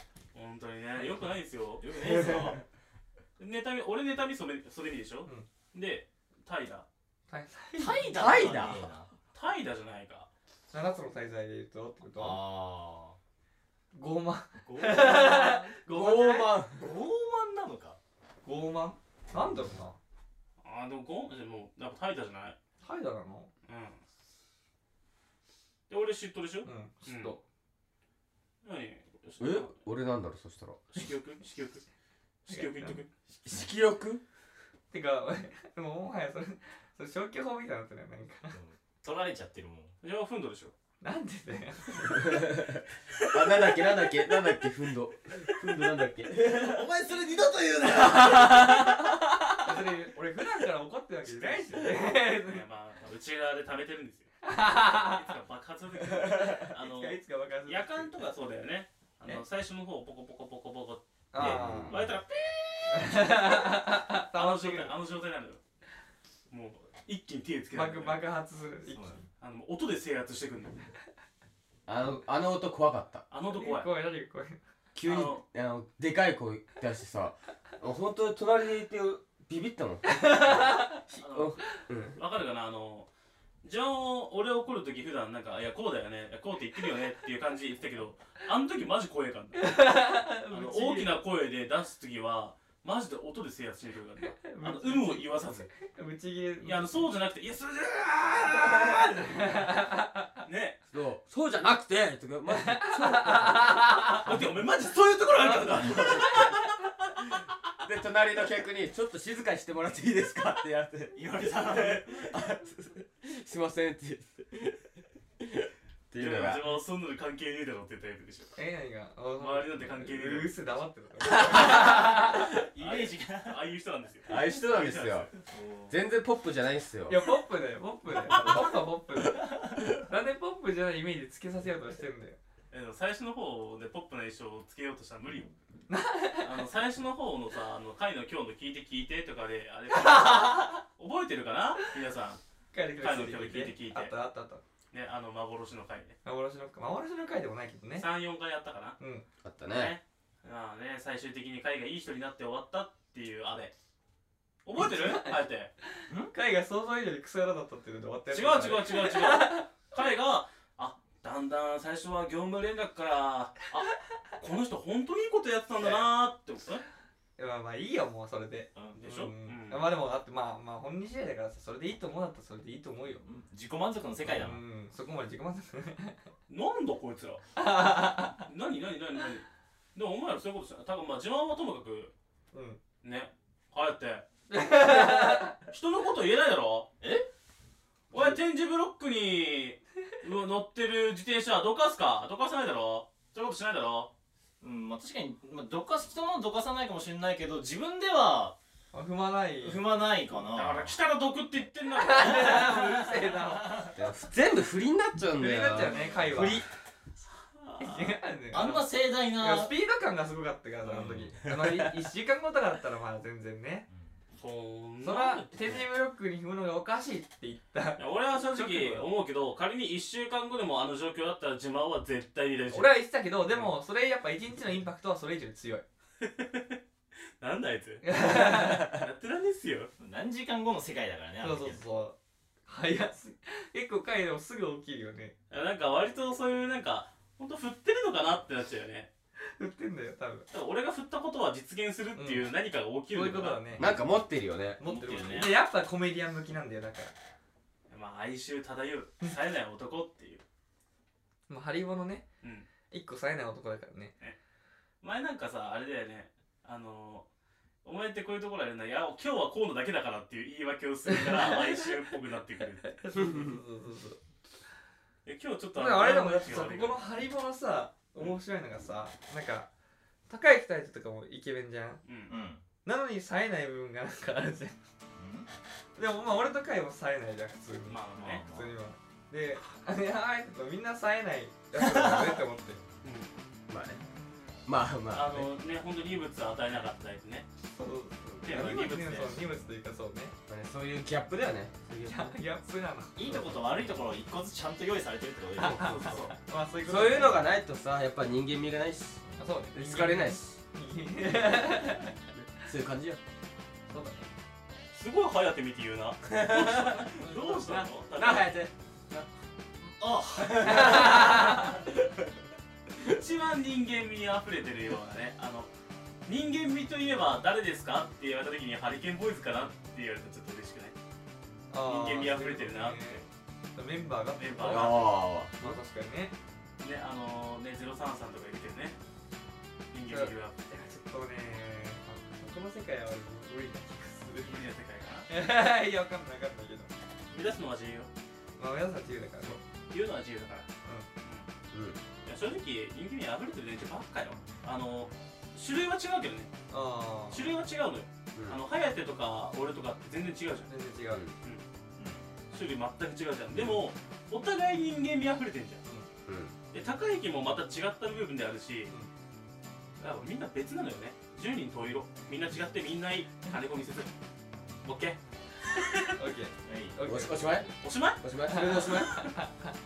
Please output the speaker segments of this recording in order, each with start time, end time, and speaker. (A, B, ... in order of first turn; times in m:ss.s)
0:00.3-0:01.9 A
0:01.0-0:02.6 B
0:03.4-0:06.8 A
0:07.3-0:08.6 C
0:07.8-0:09.1 B
0:08.1-0:08.8 D
0:09.3-0:10.3 A
0:10.7-0:12.4 C
0:12.2-0:13.2 B
0:13.9-0:16.6 C
0:14.6-0:15.8 B
0:15.9-0:17.0 D
0:16.8-0:18.0 B
0:18.4-0:20.0 C
0:20.6-0:22.6 A
0:22.8-0:23.5 C
0:23.7-0:24.0 A
0:25.9-0:27.4 A
0:26.6-0:27.4 C
0:28.6-0:29.8 A
0:29.4-0:31.0 D
0:30.9-0:31.8 A
0:32.5-0:33.1 A
0:32.5-0:33.0 C
0:33.4-0:34.2 D
0:34.9-0:38.6 C
0:38.5-0:40.0 B
0:40.0-0:40.7 A
0:41.0-0:42.4 C
0:42.1-0:46.9 D
0:46.4-0:48.7 B
0:48.2-0:52.6 C
0:51.3-0:54.3 A
0:54.4-0:55.2 C
0:54.8-1:03.7 A
0:56.2-0:58.1 C
1:01.3-1:02.0 C
1:01.4-1:02.2 D
1:02.9-1:04.9 C
1:04.3-1:05.6 A
1:06.5-1:08.3 A
1:07.7-1:09.1 C
1:08.9-1:09.2 B
1:09.4-1:10.9 A
1:11.9-1:13.2 D
1:13.3-1:13.9 A
1:13.5-1:14.6 C
1:15.0-1:22.2 D
1:15.0-1:15.4 A
1:20.1-1:21.0 C
1:21.2-1:23.1 A
1:23.6-1:29.8 A
1:29.6-1:31.1 C
1:30.5-1:35.7 A
1:34.2-1:37.1 C
1:36.6-1:39.4 A
1:38.4-1:40.2 C
1:40.4-1:40.8 A
1:40.9-1:43.9 D
1:42.7-1:44.2 C
1:44.2-1:46.8 A
1:45.4-1:46.3 B
1:47.8-1:56.6 D
1:51.2-1:52.3 B
1:56.2-1:58.5 A
1:58.6-2:02.5 C
1:59.4-2:00.8 A
2:01.6-2:02.4 D
2:02.5-2:03.6 B
2:02.8-2:05.3 A
2:04.3-2:05.3 D
2:05.4-2:06.0 B
2:05.9-2:07.2 D
2:07.1-2:12.4 C
2:08.3-2:08.6 A
2:08.3-2:08.6 B
2:12.7-2:15.5 A
2:15.9-2:16.6 C
2:16.4-2:22.4 A
2:19.9-2:20.8 C
2:22.7-2:24.6 C
2:23.0-2:24.1 A
2:24.9-2:26.2 A
2:26.2-2:28.1 C
2:28.0-2:29.0 A
2:29.0-2:29.3 C
2:29.4-2:30.0 D
2:29.7-2:33.7 A
2:34.6-2:35.7 A
2:34.8-2:39.7 C
2:38.3-2:46.8 A
2:45.8-2:46.1 C
2:47.4-2:53.2 C
2:48.8-2:49.0 B
2:49.0-2:49.9 A
2:53.2-2:54.6 B
2:54.2-2:56.2 C
2:56.5-2:57.4 A
2:57.6-2:58.4 C
2:58.4-3:02.1 A
3:02.5-3:02.8 C
3:03.0-3:06.9 A
3:04.5-3:05.6 C
3:07.0-3:07.3 B
3:08.1-3:14.1 A
3:14.6-3:18.6 B
3:18.9-3:19.8 C
3:19.6-3:21.0 B
3:20.4-3:22.7 A
3:22.0-3:23.8 C
3:22.2-3:24.0 B
3:24.0-3:26.6 D
3:25.4-3:26.7 C
3:27.2-3:28.2 A
3:27.8-3:33.9 C
3:28.5-3:29.7 B
3:30.8-3:31.3 B
3:34.4-3:35.8 A
3:35.0-3:39.1 C
3:38.0-3:43.7 A
3:42.7-3:45.8 C
3:46.2-3:46.8 A
3:47.4-3:49.9 A
3:48.0-3:49.0 C
3:50.0-3:51.8 B
3:51.4-3:52.2 C
3:52.7-3:55.4 C
3:55.5-3:59.1 A
3:59.6-4:00.5 C
4:00.5-4:04.0 A
4:02.2-4:02.5 C
4:03.1-4:04.0 C
4:03.8-4:04.8 D
4:04.8-4:07.1 C
4:04.8-4:05.6 B
4:07.9-4:10.4 A
4:11.5-4:12.2 C
4:12.4-4:12.7 A
4:12.9-4:14.1 C
4:15.0-4:17.3 A
4:17.8-4:23.0 A
4:21.1-4:22.1 C
4:22.8-4:24.2 C
4:25.3-4:27.1 A
4:25.8-4:29.7 C
4:30.3-4:32.0 C
4:32.0-4:32.4 A
4:32.3-4:32.6 B
4:32.8-4:34.8 C
4:35.2-4:35.5 B
4:36.0-4:42.8 C
4:37.9-4:38.4 A
4:38.1-4:38.8 B
4:41.8-4:42.4 B
4:43.7-4:44.0 D
4:44.7-4:45.5 D
4:45.1-4:47.5 A
4:47.7-4:50.4 C
4:48.4-4:49.4 A
4:50.5-4:52.2 D
4:52.0-4:53.3 C
4:53.2-4:55.9 B
4:55.6-4:57.5 C
4:55.6-4:56.4 A
4:56.9-4:59.2 D
4:59.4-5:02.2 C
4:59.7-5:00.6 D
5:02.3-5:03.2 D
5:03.9-5:04.3 C
5:04.9-5:08.6 A
5:06.3-5:07.2 D
5:07.2-5:07.6 C
5:08.1-5:09.2 D
5:09.9-5:11.6 B
5:10.6-5:11.8 C
5:10.6-5:11.9 D
5:13.0-5:15.7 A
5:16.3-5:21.0 A
5:21.7-5:26.4 C
5:21.8-5:23.2 A
5:24.4-5:25.1 A
5:24.6-5:25.5 D
5:26.8-5:29.0 A
5:29.9-5:30.6 A
5:30.1-5:34.7 C
5:34.5-5:35.3 A
5:35.3-5:36.9 C
5:37.3-5:38.1 A
5:38.6-5:39.6 C
5:39.9-5:40.7 A
5:41.7-5:42.0 D
5:42.2-5:46.5 A
5:46.7-5:47.5 C
5:47.3-5:50.7 A
5:50.7-5:51.2 C
5:52.0-5:52.3 B
5:52.5-5:55.9 A
5:56.3-5:56.5 D
5:56.7-5:58.9 A
6:00.0-6:04.1 A
6:04.8-6:06.1 A
6:06.1-6:07.7 C
6:06.6-6:07.0 B
6:07.0-6:09.2 D
6:07.8-6:09.3 A
6:08.5-6:09.7 C